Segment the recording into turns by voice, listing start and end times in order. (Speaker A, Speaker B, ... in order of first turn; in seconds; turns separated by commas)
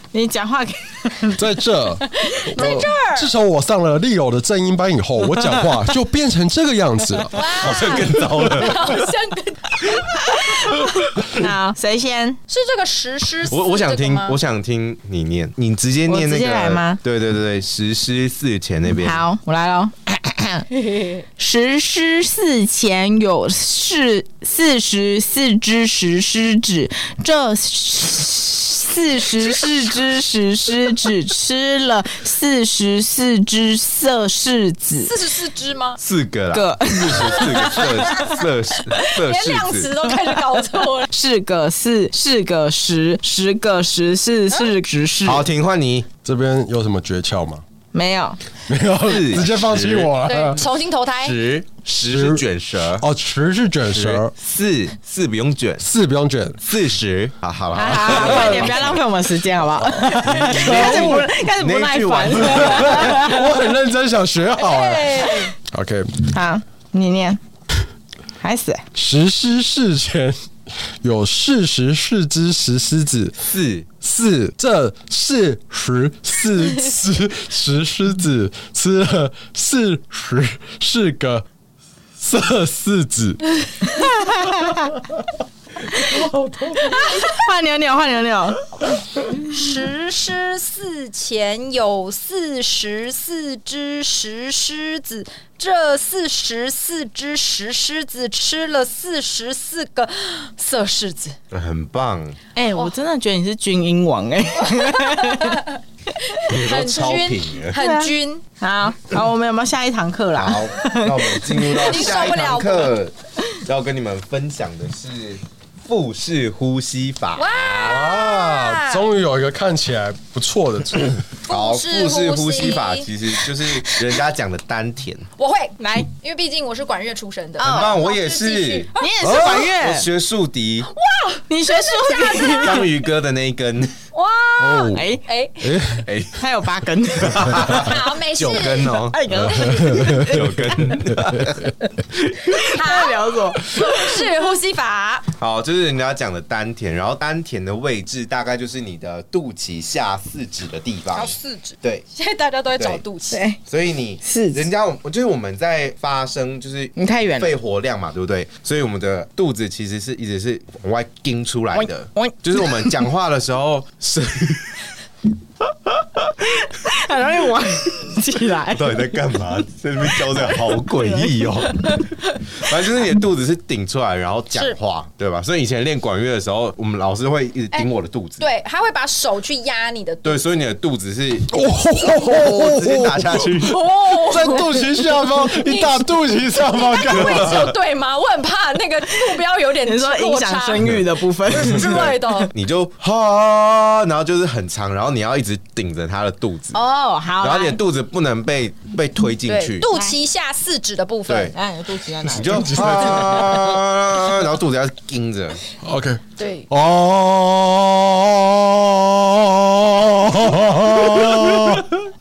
Speaker A: 0.1-1.5, Speaker B: 1.4-7.4, Speaker C: 2.2-3.3, Speaker C: 7.3-10.7, Speaker D: 7.4-9.1, Speaker A: 10.1-12.4, Speaker C: 12.5-14.4, Speaker D: 13.5-19.2, Speaker A: 16.1-17.0, Speaker A: 19.0-20.7, Speaker C: 20.8-21.2, Speaker A: 21.4-35.1, Speaker C: 29.5-29.8, Speaker C: 35.0-36.0, Speaker D: 36.0-39.9, Speaker A: 36.5-38.3, Speaker C: 37.1-38.4, Speaker C: 39.0-41.1, Speaker A: 41.1-45.5, Speaker D: 45.2-46.1, Speaker B: 46.2-47.6, Speaker A: 47.9-48.4, Speaker B: 48.7-50.6, Speaker D: 49.0-50.1, Speaker C: 50.2-51.4, Speaker D: 51.2-53.0, Speaker B: 52.0-52.4, Speaker B: 53.0-54.3, Speaker D: 53.9-55.9, Speaker B: 55.8-56.6, Speaker D: 56.6-59.0, Speaker A: 57.7-63.5, Speaker B: 58.0-58.7, Speaker B: 59.9-61.3, Speaker D: 60.4-63.4, Speaker B: 62.4-66.2, Speaker C: 62.6-63.0, Speaker C: 64.6-65.5, Speaker A: 66.2-67.4, Speaker A: 68.4-68.8, Speaker B: 68.9-73.5, Speaker D: 73.5-73.9, Speaker B: 74.0-81.4, Speaker B: 82.2-83.5, Speaker A: 83.8-85.0, Speaker A: 85.9-86.2, Speaker A: 86.7-88.6, Speaker C: 86.8-87.4, Speaker C: 89.2-101.4, Speaker D: 101.5-102.4, Speaker A: 102.5-105.6, Speaker C: 104.7-108.4, Speaker D: 106.5-107.8, Speaker A: 107.7-112.0, Speaker D: 110.3-118.0, Speaker C: 111.6-112.9, Speaker C: 117.3-119.1, Speaker B: 117.8-121.2, Speaker C: 121.5-123.1, Speaker D: 121.5-125.3, Speaker C: 125.4-129.1, Speaker A: 125.8-126.1, Speaker A: 127.6-127.9, Speaker D: 127.6-130.9, Speaker A: 128.9-130.1, Speaker B: 129.2-129.7, Speaker C: 130.9-132.9, Speaker A: 131.5-132.8, Speaker D: 132.6-133.9, Speaker C: 134.1-135.8, Speaker B: 134.6-135.0, Speaker A: 134.9-135.2, Speaker B: 135.6-136.1, Speaker D: 136.0-136.4, Speaker A: 136.4-137.8, Speaker D: 137.2-142.6, Speaker C: 137.6-140.3, Speaker A: 138.8-141.1, Speaker B: 139.7-140.3, Speaker A: 142.4-144.1, Speaker C: 142.6-145.2, Speaker D: 145.3-152.0, Speaker C: 151.1-153.4, Speaker D: 152.8-153.0, Speaker A: 153.3-153.6, Speaker D: 153.6-164.9, Speaker A: 154.2-154.6, Speaker A: 156.9-157.5, Speaker A: 161.7-163.0, Speaker D: 165.9-166.2, Speaker A: 166.4-169.2, Speaker D: 168.7-178.4, Speaker A: 170.5-171.3, Speaker C: 178.4-180.4, Speaker D: 180.2-183.8, Speaker B: 181.5-187.7, Speaker C: 183.6-192.5, Speaker D: 187.1-187.8, Speaker A: 189.2-192.4, Speaker D: 191.5-196.8, Speaker A: 196.7-197.8, Speaker D: 197.4-199.9, Speaker C: 199.4-201.5, Speaker D: 201.3-201.5, Speaker A: 201.5-203.0, Speaker D: 202.3-205.6, Speaker B: 202.3-203.8, Speaker B: 205.8-211.9, Speaker C: 206.4-206.7, Speaker D: 210.9-212.0